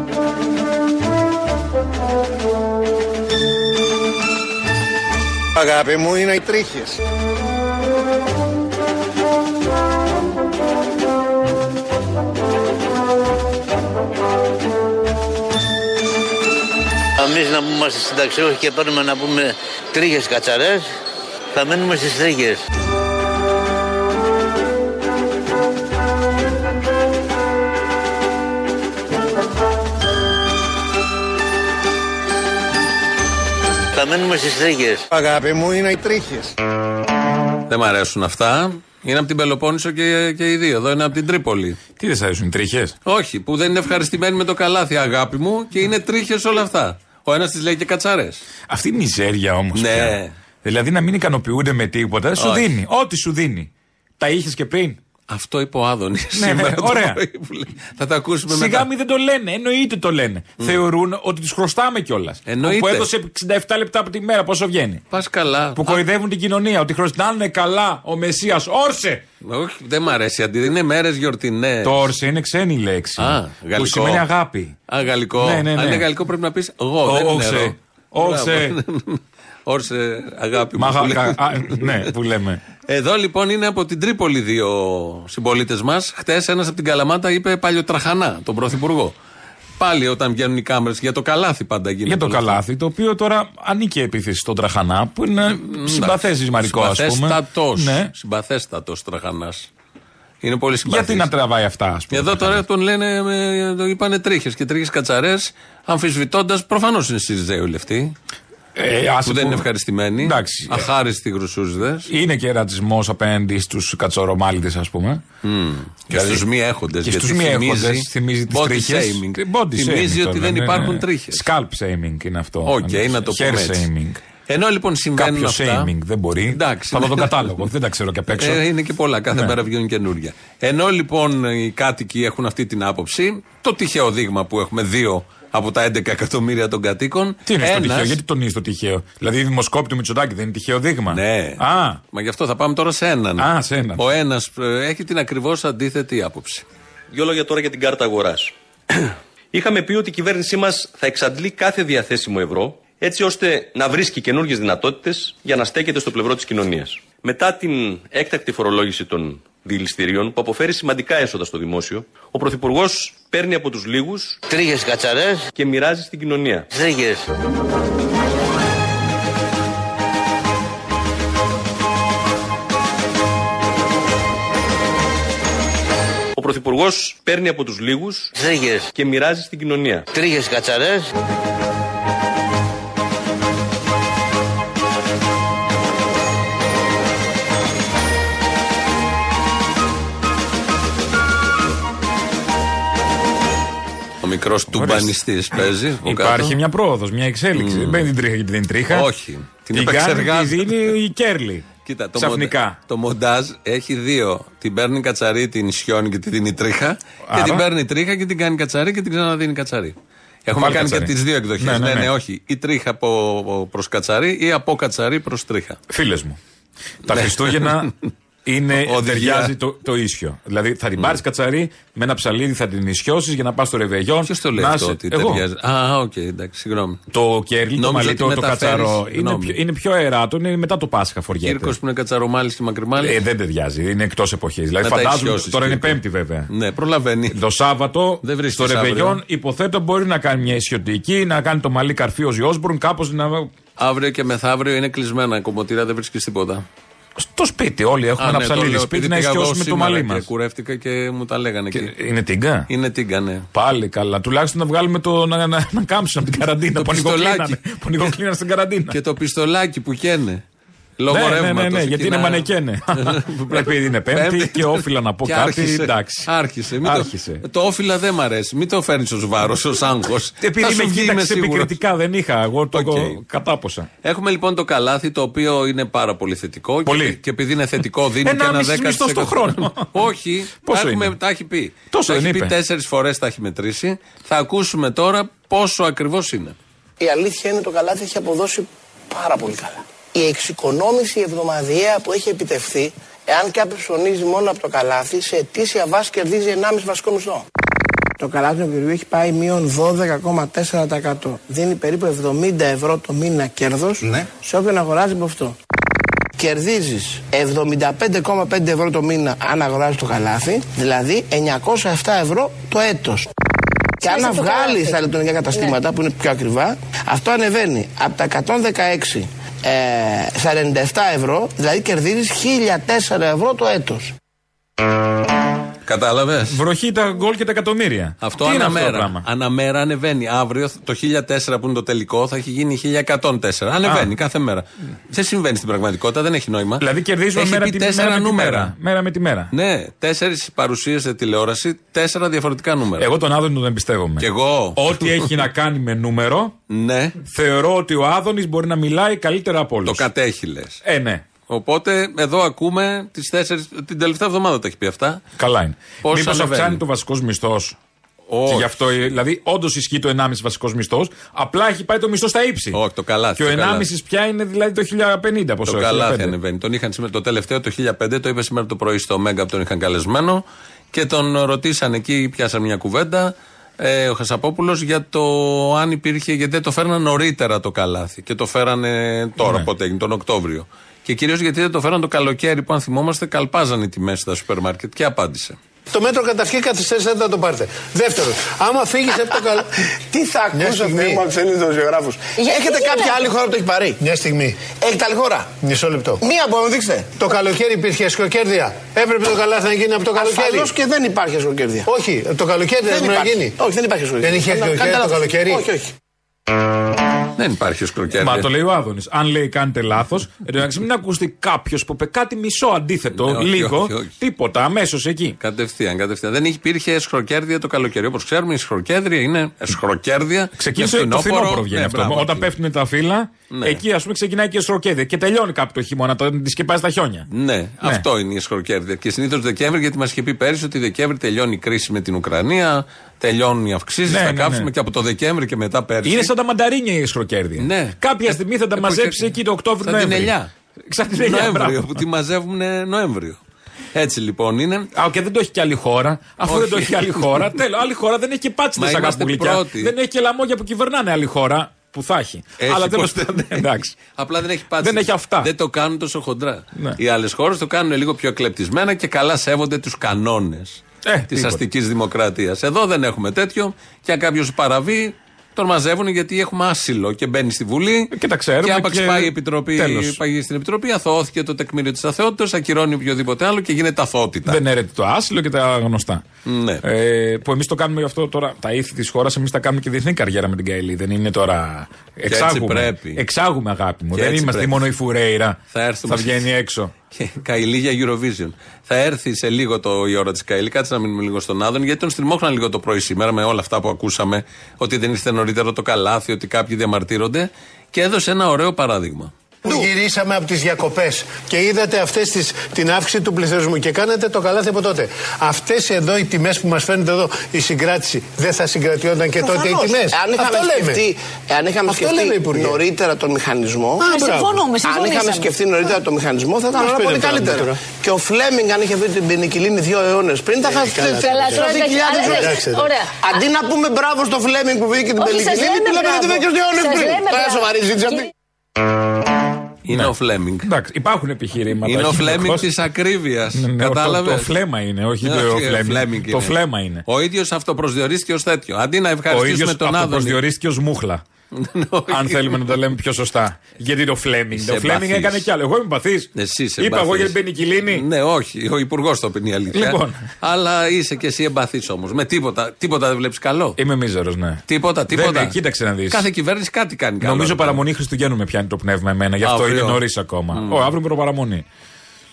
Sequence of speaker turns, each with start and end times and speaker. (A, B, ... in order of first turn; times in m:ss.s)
0:05.6-0:07.0 A
0:17.2-0:20.9 B
0:21.5-0:22.6 B
0:33.9-0:35.1 B
0:35.1-0:36.6 A
0:37.7-0:41.8 C
0:42.0-0:43.0 D
0:43.0-0:48.4 C
0:48.7-0:55.0 D
0:49.8-0:50.4 C
0:52.4-0:52.7 C
0:55.3-0:58.9 C
0:56.4-0:57.2 D
0:58.5-1:05.0 D
1:02.5-1:03.1 C
1:05.1-1:06.0 C
1:05.8-1:09.2 D
1:09.4-1:12.1 C
1:11.8-1:14.8 D
1:13.2-1:14.2 C
1:14.9-1:22.1 C
1:15.3-1:16.1 D
1:17.0-1:18.8 D
1:20.8-1:22.6 D
1:22.9-1:29.2 C
1:29.8-1:32.6 C
1:32.1-1:38.1 D
1:35.6-1:39.7 C
1:40.4-1:41.3 C
1:40.9-1:42.6 D
1:42.1-1:48.2 C
1:48.8-1:49.6 D
1:49.2-1:52.1 C
1:50.2-1:50.9 D
1:52.1-1:55.2 D
1:55.4-2:01.5 C
1:56.1-1:56.4 D
1:57.0-2:04.2 D
2:02.6-2:03.9 C
2:04.5-2:05.9 C
2:05.2-2:08.6 D
2:06.5-2:07.6 C
2:08.4-2:18.2 C
2:17.5-2:22.0 D
2:21.1-2:26.6 C
2:23.4-2:24.1 D
2:27.1-2:44.4 E
2:44.5-2:45.5 B
2:45.6-2:46.7 E
2:46.7-2:47.3 B
2:56.4-2:58.3 E
2:58.4-2:58.9 B
2:58.9-3:00.1 E
3:00.1-3:01.1 B
3:14.2-3:16.6 C
3:14.7-3:15.2 D
3:16.0-3:19.1 D
3:17.6-3:18.1 C
3:18.9-3:20.9 C
3:19.7-3:22.8 D
3:21.8-3:35.8 C
3:27.3-3:27.6 D
3:30.6-3:32.1 D
3:35.9-3:36.4 D
3:37.0-3:37.9 D
3:37.1-3:38.0 C
3:38.4-3:45.4 D
3:38.8-3:39.6 C
3:44.2-3:47.0 C
3:47.1-3:51.8 D
3:47.8-3:49.6 C
3:51.4-3:53.2 C
3:53.0-3:56.5 D
3:54.8-3:56.0 C
3:56.5-3:57.4 C
3:57.3-4:03.5 D
3:58.2-3:59.2 C
4:03.8-4:06.6 C
4:07.2-4:10.3 D
4:08.2-4:11.9 C
4:11.7-4:12.7 D
4:12.7-4:13.5 C
4:13.5-4:19.0 D
4:16.8-4:18.1 C
4:18.9-4:20.4 C
4:21.0-4:31.7 C
4:21.1-4:26.3 D
4:26.8-4:27.4 D
4:30.4-4:33.9 D
4:32.7-4:33.2 C
4:34.0-4:46.6 C
4:36.8-4:37.2 D
4:38.2-4:40.0 D
4:40.6-4:41.2 D
4:41.9-4:42.5 D
4:47.0-4:57.4 F
4:58.2-5:05.6 F
5:06.4-5:13.3 F
5:14.0-5:24.1 F
5:14.0-5:15.0 G
5:25.9-5:26.6 C
5:26.4-5:29.2 D
5:28.2-5:38.7 C
5:33.8-5:34.1 D
5:36.8-5:39.5 D
5:39.5-5:43.1 C
5:43.0-5:46.6 D
5:44.2-5:45.3 C
5:46.7-5:47.2 C
5:47.2-5:50.1 D
5:49.8-5:50.8 C
5:50.8-5:51.2 D
5:51.5-5:55.2 C
5:55.4-5:57.8 D
5:56.0-5:56.8 C
5:58.3-5:58.8 C
5:58.5-6:02.8 D
6:02.7-6:03.9 C
6:03.4-6:06.4 D
6:05.7-6:25.6 C
6:19.4-6:19.7 D
6:25.9-6:29.7 H
6:30.0-6:34.0 F
6:30.5-6:31.2 H
6:32.4-6:33.3 G
6:34.0-6:34.7 H
6:34.8-6:35.5 F
6:35.6-6:36.2 H
6:36.2-6:37.2 F
6:37.2-6:40.7 H
6:40.2-6:41.9 F
6:41.9-6:43.6 H
6:42.9-6:45.9 F
6:44.2-6:45.7 H
6:47.4-6:48.5 C
6:48.1-6:55.4 D
6:53.1-6:54.1 C
6:55.4-7:02.5 C
7:00.6-7:07.3 D
7:03.5-7:03.8 C
7:07.3-7:16.3 C
7:14.1-7:14.7 D
7:16.0-7:20.3 D
7:17.6-7:20.5 C
7:20.9-7:22.0 D
7:21.2-7:23.4 C
7:23.9-7:24.9 C
7:24.9-7:34.0 D
7:26.4-7:27.5 C
7:28.8-7:29.9 C
7:32.6-7:54.6 C
7:34.8-7:35.5 D
7:41.0-7:41.6 D
7:48.1-7:50.2 D
7:54.5-7:56.2 D
7:56.4-7:56.8 C
7:56.8-8:06.9 D
8:02.3-8:03.2 C
8:04.1-8:04.9 C
8:05.7-8:06.5 C
8:07.1-8:19.3 C
8:19.6-8:31.0 H
8:29.4-8:42.7 F
8:31.9-8:32.8 H
8:34.0-8:34.5 H
8:34.0-8:35.5 G
8:36.7-8:37.8 H
8:40.6-8:42.9 H
8:41.1-8:43.2 G
8:43.2-8:48.3 F
8:45.2-8:48.3 G
8:49.8-8:50.7 C
8:50.6-8:52.7 D
8:51.8-8:54.6 C
8:53.5-8:57.0 D
8:55.2-9:00.4 C
8:59.3-9:01.2 D
9:01.5-9:02.7 C
9:02.1-9:08.0 D
9:04.5-9:05.5 C
9:06.4-9:07.4 C
9:07.9-9:13.8 C
9:09.7-9:10.3 D
9:13.8-9:16.2 D
9:14.7-9:15.6 C
9:16.1-9:17.8 C
9:17.2-9:21.6 D
9:19.4-9:20.9 C